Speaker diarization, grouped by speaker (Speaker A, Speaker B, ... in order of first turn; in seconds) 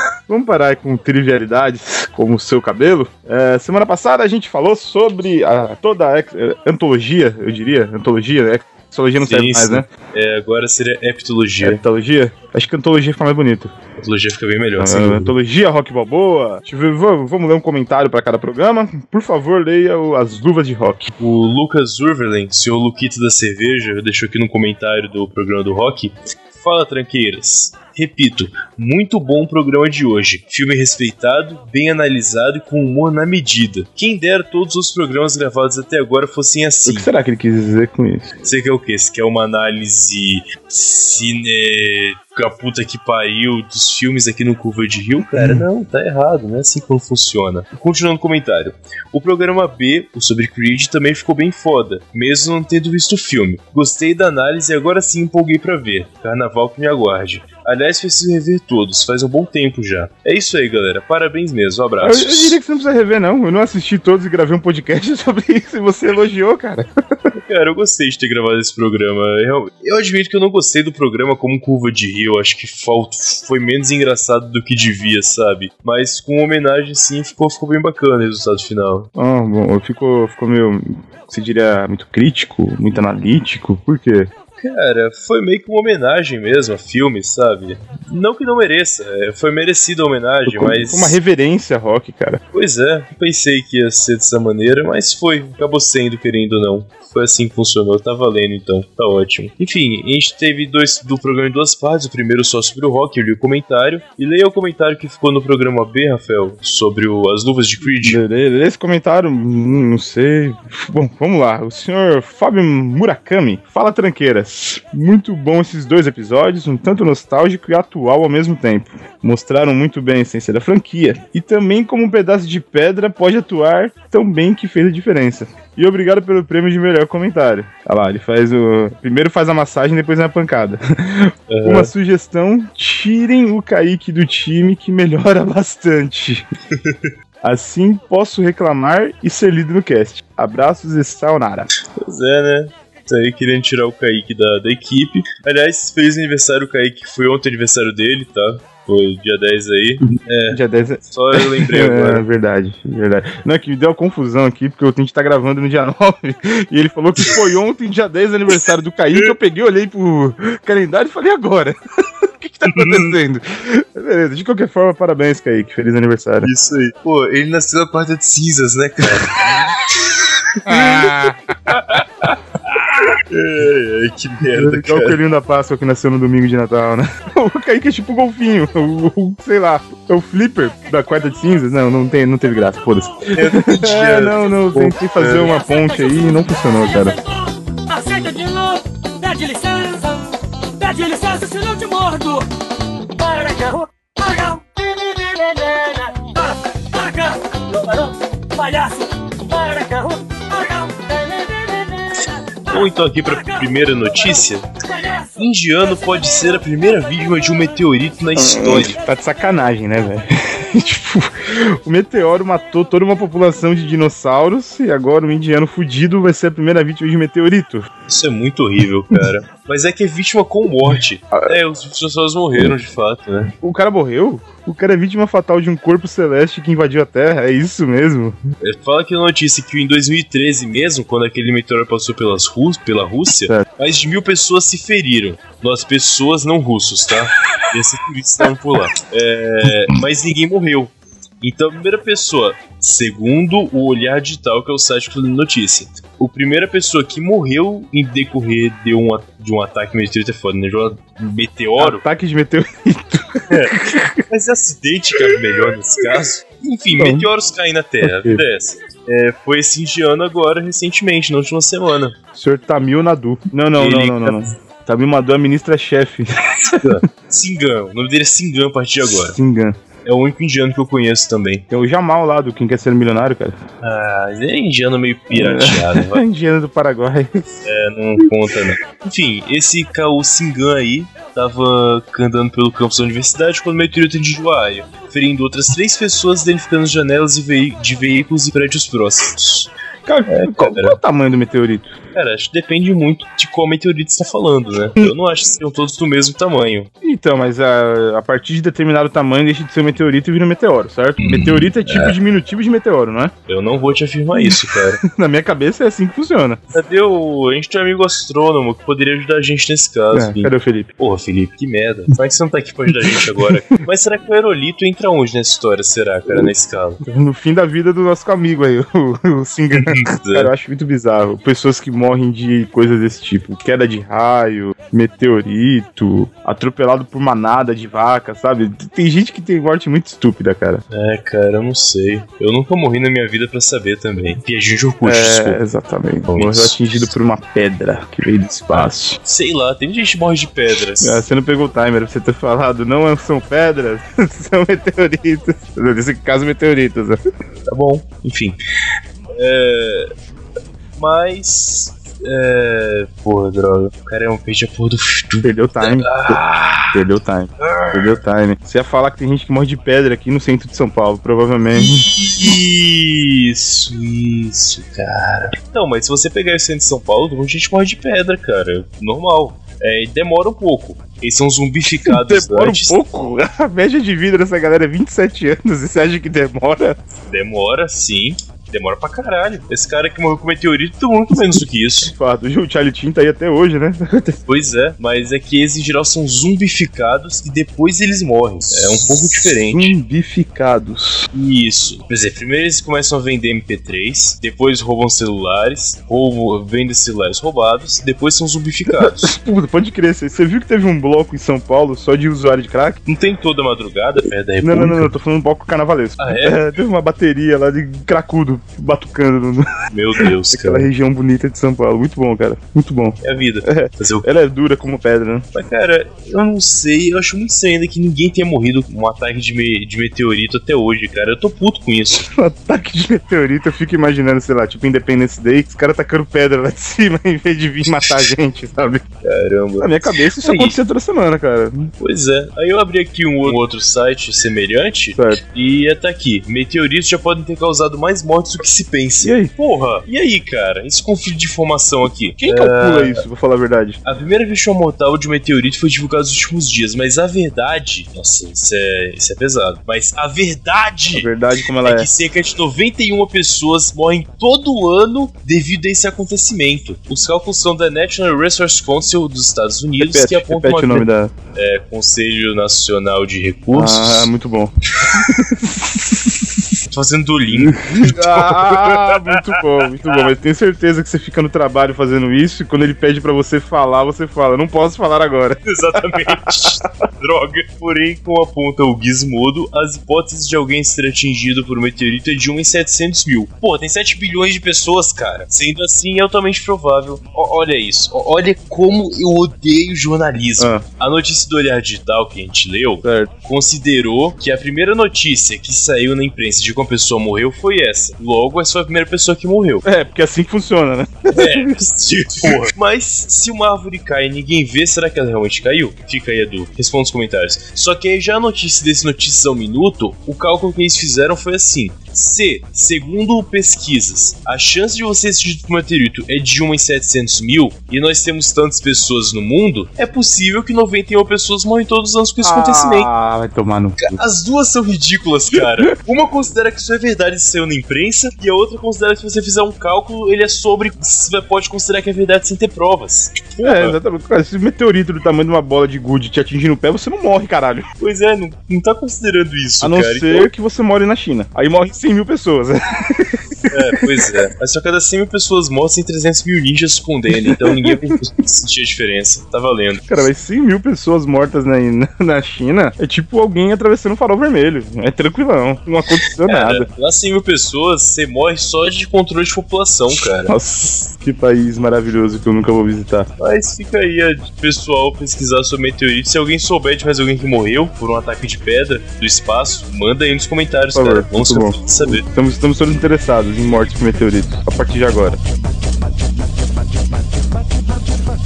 Speaker A: 0.3-9.9, 11.6-13.7, 14.8-21.1, 36.9-38.3, 45.4-45.6, 62.0-67.3, 79.2-84.3, 90.5-92.4, 108.0-136.5, 137.4-141.7, 150.5-166.5, 170.7-171.6, 174.5-187.2, 208.3-217.9, 223.6-228.4, 251.8-254.2, 256.9-257.3, 258.0-258.4, 262.3-266.9, 269.2-269.8, 271.7-273.6, 275.3-277.5, 290.1-292.0, 297.0-303.3, 304.4-306.7, 310.1-310.9, 313.0-313.5, 317.0-330.8, 335.0-339.2, 341.0-347.2, 355.4-356.4, 356.9-362.1, 372.1-377.0, 382.1-384.4, 388.7-391.3, 399.0-403.0, 404.6-409.7, 410.2-415.5, 422.2-429.0, 429.8-431.9, 435.1-435.4, 439.2-439.5, 442.4-444.0, 451.1-452.1, 460.0-461.3, 463.7-466.8, 467.5-476.9, 490.6-490.8, 493.0-493.3, 499.9-502.7, 522.4-524.1, 525.5-525.9, 533.6-537.9, 539.8-544.1, 547.5-548.0, 550.1-556.9, 560.5-563.3, 570.9-575.4
Speaker B: 9.2-11.8, 14.0-15.3, 21.2-37.1, 38.4-62.6, 67.3-79.1, 84.6-91.2, 92.5-108.2, 131.5-131.9, 136.7-137.1, 141.9-152.2, 162.7-163.2, 166.4-175.2, 183.3-185.6, 202.7-204.7, 205.3-209.0, 218.1-223.6, 228.6-252.0, 253.5-262.2, 263.8-264.5, 266.7-269.4, 270.1-271.7, 273.8-276.2, 277.6-289.7, 290.3-291.0, 292.1-296.9, 301.2-302.2, 303.5-305.0, 306.7-317.0, 319.8-320.5, 330.9-335.6, 336.3-336.8, 338.7-341.2, 347.7-348.6, 349.4-350.1, 351.0-358.2, 361.8-373.0, 377.3-382.1, 384.5-389.9, 391.3-399.3, 403.1-405.1, 406.2-406.7, 409.9-410.9, 413.2-414.3, 415.5-422.3, 429.2-430.8, 432.0-443.2, 444.1-464.3, 465.0-465.4, 466.9-470.3, 475.7-499.8, 501.3-523.1, 524.0-534.0, 538.0-540.5, 543.7-550.1, 556.5-560.5, 563.4-572.2
Speaker C: 185.5-192.5, 193.1-205.4